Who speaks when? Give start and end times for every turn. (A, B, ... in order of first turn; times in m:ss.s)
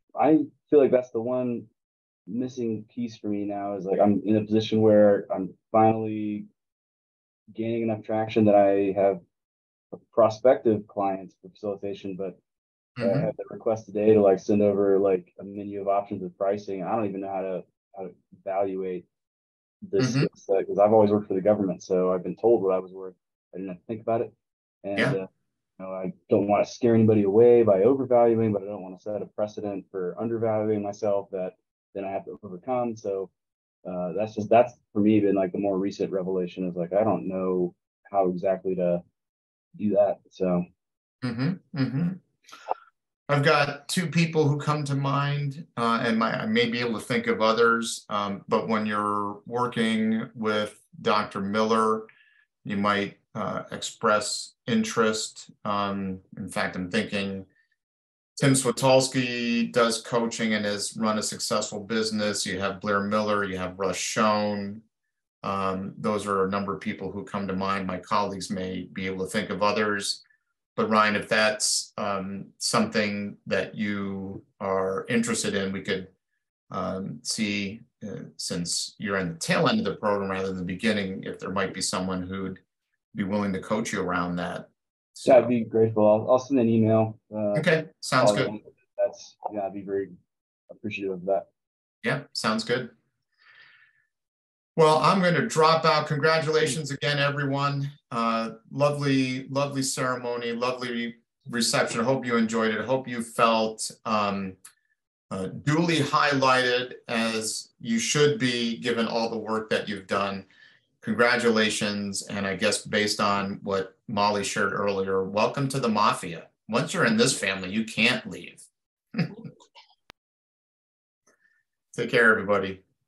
0:00.2-0:01.6 A
0:02.3-0:06.4 A
0:07.5-0:09.2 A
0:09.9-0:12.4 A
0:13.0-0:13.3 B
0:13.0-0:19.0 A
0:19.8-0:25.3 A
0:20.0-0:20.3 B
0:25.8-0:33.3 A
0:33.8-0:39.0 A
0:39.8-0:40.6 A
0:41.2-0:42.2 B
0:43.3-0:52.1 B
0:52.6-0:57.5 B
0:58.4-1:04.8 B
1:05.4-1:10.2 B
1:10.8-1:16.1 B
1:16.7-1:22.6 B
1:23.1-1:25.5 B
1:25.2-1:30.1 A
1:27.5-1:28.5 B
1:30.7-1:31.5 A
1:32.0-1:32.9 B
1:34.8-1:44.6 B
1:45.3-1:50.4 B
1:51.0-1:58.6 B
2:01.9-2:02.8 B